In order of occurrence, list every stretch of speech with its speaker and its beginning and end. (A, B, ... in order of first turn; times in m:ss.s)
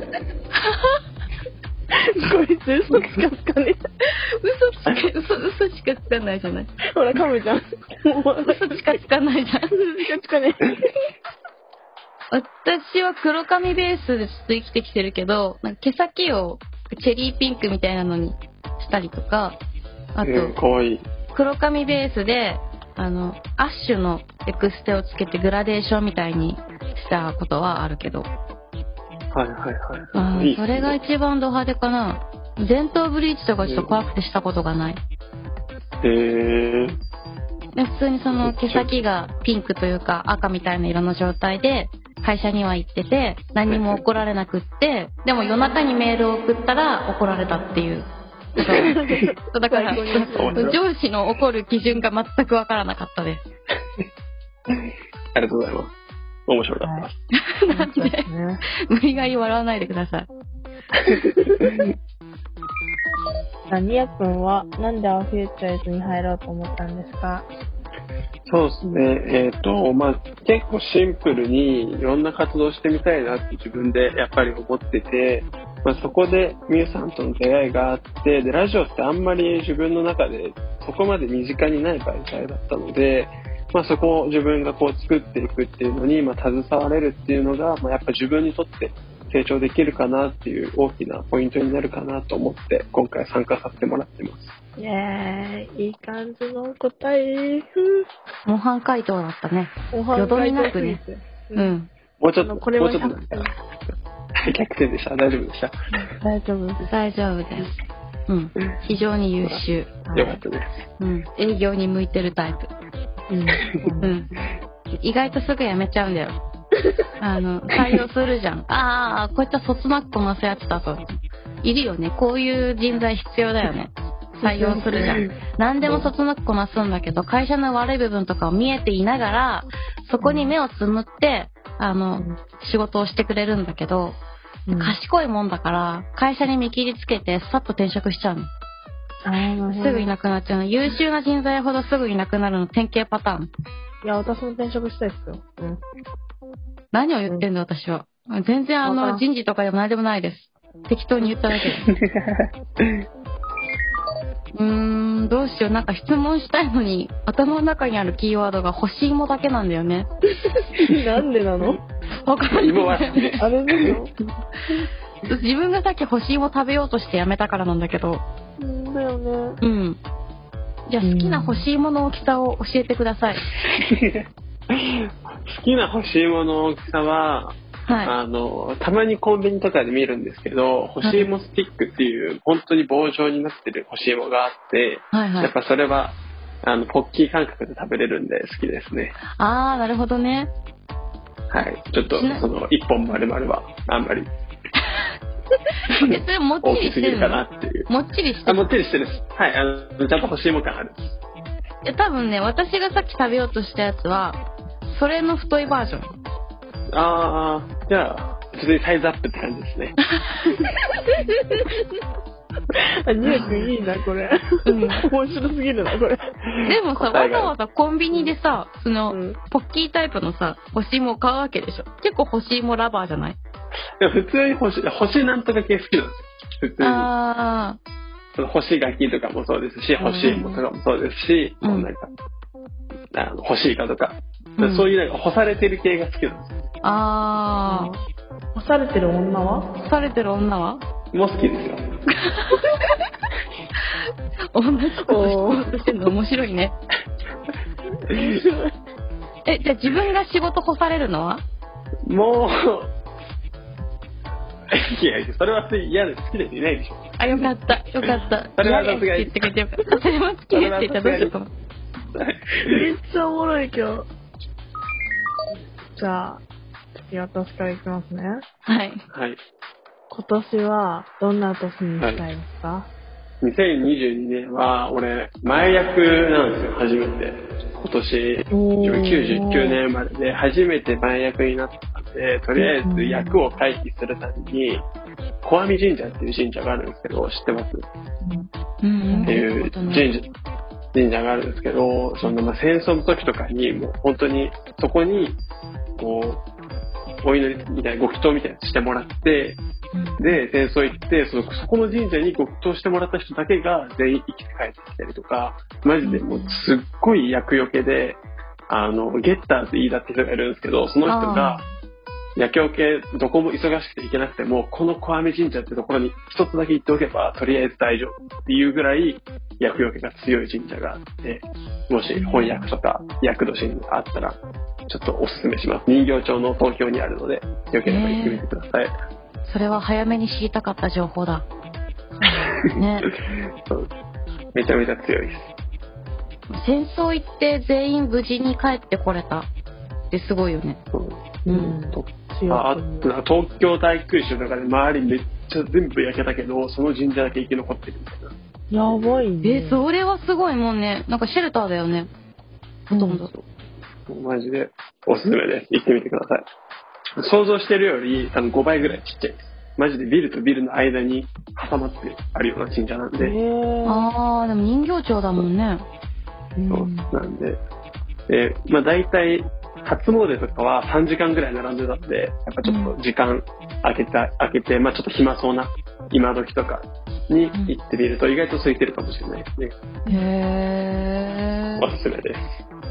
0:00.6-0:01.0 A
0:01.9-0:03.8 B
0:04.4-0:06.7 A
0:06.9-0:09.0 B
0:08.4-0:09.7 A
0:09.7-0:10.9 B
0:12.3-0:19.6 A
0:20.1-0:20.5 A
0:20.2-0:21.0 C
0:21.3-0:28.3 A
0:29.3-0:31.0 C
0:30.1-0:35.0 A
0:33.6-0:33.9 C
0:36.0-0:37.0 C
0:37.7-0:48.9 A
0:38.4-0:38.9 C
0:43.7-0:44.0 C
0:48.6-0:50.8 B
0:49.5-0:53.4 A
0:50.3-0:50.8 C
0:55.3-0:55.9 C
0:56.5-0:57.1 C
0:56.8-0:57.1 B
0:57.3-0:58.2 A
0:57.7-0:58.6 B
0:58.9-1:00.3 A
1:01.1-1:01.5 B
1:01.6-1:01.8 C
1:03.7-1:07.5 B
1:08.5-1:34.5 C
1:34.8-1:38.0 B
1:38.4-1:41.0 A
1:39.9-1:41.7 B
1:41.5-1:41.9 A
1:42.2-1:43.5 C
1:42.4-1:43.5 B
1:44.4-1:45.7 C
1:46.2-1:46.8 B
1:46.8-1:47.7 A
1:48.3-1:49.9 A
1:49.4-1:50.8 C
1:50.1-1:50.4 B
1:51.0-1:52.7 A
1:53.3-1:54.2 B
1:54.0-1:54.3 A
1:55.0-1:56.4 A
1:57.2-2:01.0 A
2:01.6-2:14.2 A
2:04.4-2:05.2 B
2:05.0-2:05.3 C
2:10.2-2:10.5 B
2:14.7-2:15.0 B
2:14.7-2:18.5 A
2:19.2-2:20.1 B
2:19.7-2:23.5 A
2:24.0-2:25.8 B
2:26.9-2:31.9 A
2:28.8-2:29.2 B
2:31.8-2:33.0 C
2:34.5-2:40.1 A
2:40.4-2:41.8 B
2:42.2-2:43.4 A
2:42.5-2:44.0 C
2:43.4-2:44.1 B
2:45.2-2:48.2 A
2:48.6-2:49.6 B
2:49.6-2:50.0 A
2:50.9-2:53.5 A
2:51.0-2:51.6 B
2:53.7-3:09.2 C
2:57.9-2:58.1 A
3:01.0-3:01.3 A
3:05.1-3:05.5 A
3:09.4-3:10.5 A
3:11.5-3:14.3 C
3:12.0-3:12.4 A
3:15.9-3:17.9 C
3:16.0-3:18.7 A
3:18.4-3:21.2 C
3:21.8-3:26.1 A
3:26.9-3:30.0 C
3:30.1-3:30.6 A
3:31.2-3:31.8 B
3:33.0-3:36.3 B
3:34.6-3:35.0 A
3:36.5-3:37.5 C
3:36.6-3:43.4 A
3:39.1-3:39.4 B
3:44.0-3:47.1 C
3:46.8-3:47.8 A
3:48.4-3:52.1 C
3:50.0-3:50.6 A
3:51.6-3:51.9 A
3:53.1-3:56.6 C
3:54.6-3:54.9 A
3:56.8-3:57.9 A
3:57.6-3:58.0 B
3:58.5-3:59.7 B
3:59.8-4:00.8 A
4:01.1-4:01.9 C
4:02.1-4:02.8 A
4:04.5-4:06.7 A
4:05.0-4:05.8 B
4:08.0-4:08.7 B
4:09.4-4:11.4 A
4:12.1-4:12.9 C
4:14.7-4:17.4 C
4:17.2-4:21.5 A
4:18.0-4:19.4 C
4:20.5-4:21.3 C
4:22.1-4:22.9 C
4:22.6-4:24.1 B
4:25.9-4:26.4 B
4:27.1-4:28.4 B
4:28.6-4:29.0 A
4:29.1-4:29.4 C
4:30.1-4:32.9 B
4:32.0-4:32.2 C
4:33.4-4:44.8 C
4:38.5-4:39.8 B
4:42.6-4:43.4 B
4:45.4-4:47.8 C
4:48.2-4:48.5 B
4:48.8-4:50.1 A
4:49.1-4:49.4 B
4:49.2-4:50.3 C
4:50.9-4:55.4 C
4:56.0-4:56.4 C
4:57.2-4:59.6 C
4:59.9-5:00.3 A
5:00.2-5:11.6 C
5:06.0-5:06.5 A
5:11.0-5:11.6 A
5:12.4-5:28.9 C
5:22.2-5:22.6 A
5:27.8-5:28.4 A
5:29.4-5:31.4 A
5:32.2-5:32.5 B
5:32.7-5:33.1 A
5:33.6-5:33.9 C
5:34.5-5:35.5 C
5:36.5-5:39.5 A
5:40.1-5:40.8 A
5:40.9-5:49.1 C
5:41.5-5:43.1 B
5:48.7-5:49.8 B
5:49.4-5:52.1 A
5:52.9-5:53.3 A
5:52.9-5:53.2 B
5:54.1-5:56.4 C
5:57.2-6:03.3 C
6:03.2-6:04.1 B
6:03.8-6:05.8 A
6:06.6-6:07.1 B
6:06.7-6:07.6 C
6:08.3-6:19.7 C
6:12.6-6:12.9 A
6:20.1-6:21.9 A
6:21.8-6:22.6 C